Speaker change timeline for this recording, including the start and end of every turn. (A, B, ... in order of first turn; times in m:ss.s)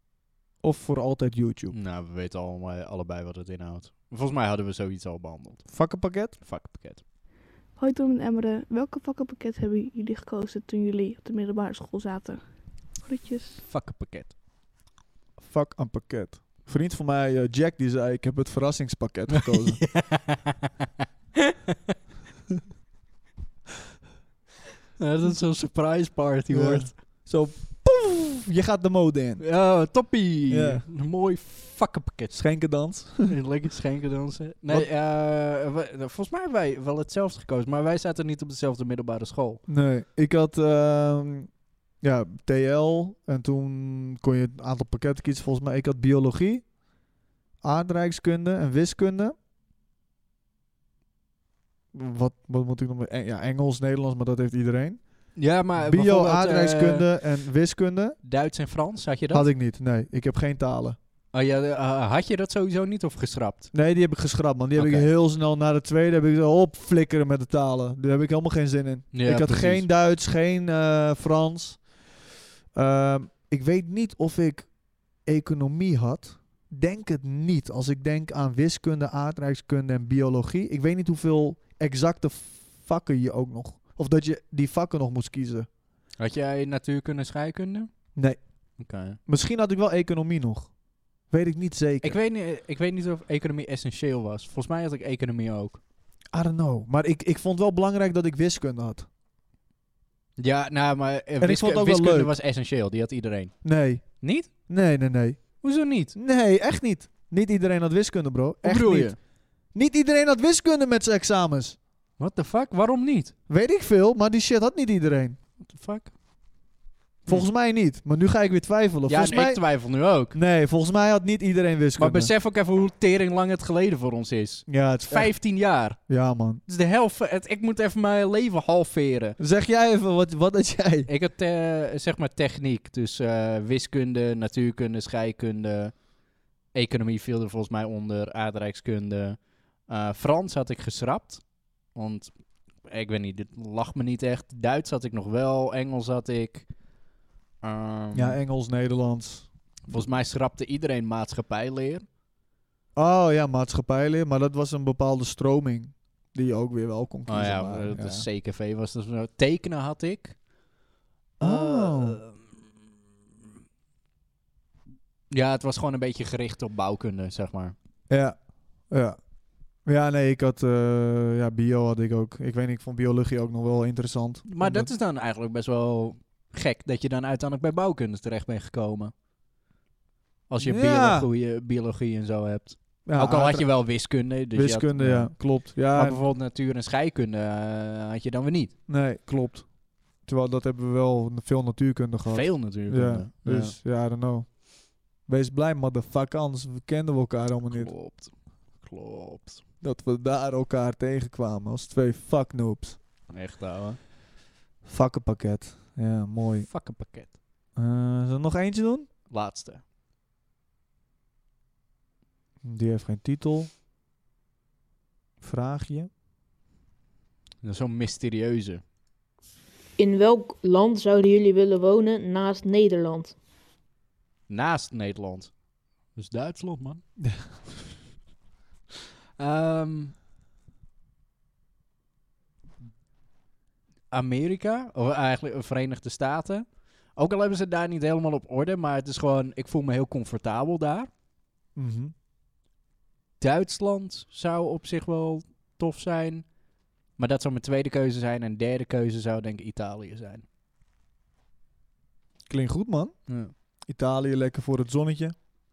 0:00.6-0:01.7 A
0:01.7-0:05.8 B
0:05.7-0:06.4 A
0:06.4-0:07.0 B
0:07.8-0:12.4 C
0:13.0-0:13.6 C
0:13.6-0:14.3 B
0:15.4-0:19.8 A
0:19.4-0:20.9 B
0:21.5-0:21.7 B
0:25.0-0:26.9 B
0:26.5-0:29.4 A
0:29.4-0:39.6 B
0:30.5-0:30.8 A
0:32.3-0:33.3 A
0:39.7-0:46.6 A
0:47.6-0:49.3 A
0:51.9-0:55.0 A
0:55.4-0:57.1 B
0:55.8-0:58.2 A
0:58.2-0:59.5 B
0:59.3-1:01.0 A
1:01.3-1:03.7 B
1:03.7-1:11.8 A
1:04.7-1:05.1 B
1:09.1-1:09.8 B
1:12.7-1:25.7 A
1:26.2-1:27.9 B
1:28.8-1:29.2 B
1:29.2-1:30.7 A
1:31.3-1:32.2 A
1:32.0-1:35.8 B
1:36.3-1:39.1 A
1:40.4-1:43.6 B
1:41.4-1:42.3 A
1:43.6-1:44.0 A
1:44.2-1:44.5 B
1:44.7-1:45.6 A
1:45.6-1:46.1 B
1:46.1-1:49.1 A
1:48.6-1:49.2 B
1:49.7-1:51.8 A
1:52.2-1:53.3 B
1:53.5-1:55.4 A
1:55.6-1:56.1 B
1:57.2-1:59.6 A
1:59.1-2:00.4 B
2:00.3-2:02.3 A
2:02.0-2:06.0 B
2:04.7-2:05.3 A
2:06.1-2:06.6 A
2:06.7-2:09.4 B
2:09.4-2:11.1 A
2:11.1-2:16.1 B
2:16.7-2:22.3 B
2:22.8-2:26.7 B
2:27.6-2:28.4 B
2:28.1-2:30.1 A
2:29.9-2:32.0 B
2:33.0-2:38.2 A
2:37.2-2:40.4 B
2:41.4-2:42.2 A
2:41.4-2:42.5 B
2:45.3-2:47.8 B
2:48.1-2:48.4 A
2:48.9-2:49.2 A
2:49.8-2:54.9 A
2:54.4-2:59.1 B
3:00.5-3:08.7 B
3:00.6-3:01.3 A
3:03.0-3:03.7 A
3:04.5-3:06.2 A
3:08.9-3:09.7 A
3:10.2-3:17.9 A
3:12.2-3:13.8 B
3:17.7-3:19.6 B
3:19.8-3:23.0 A
3:23.3-3:24.0 B
3:24.8-3:26.7 A
3:26.6-3:27.3 B
3:27.8-3:29.1 A
3:29.3-3:29.8 B
3:32.6-3:33.7 A
3:35.4-3:36.1 A
3:37.6-3:38.8 B
3:40.0-3:43.3 D
3:44.5-3:45.5 B
3:46.1-3:47.0 B
3:49.4-3:50.1 B
3:54.1-4:01.1 B
4:01.8-4:02.1 A
4:03.4-4:06.5 B
4:07.2-4:10.4 B
4:12.5-4:13.1 A
4:13.3-4:13.5 B
4:13.9-4:15.3 A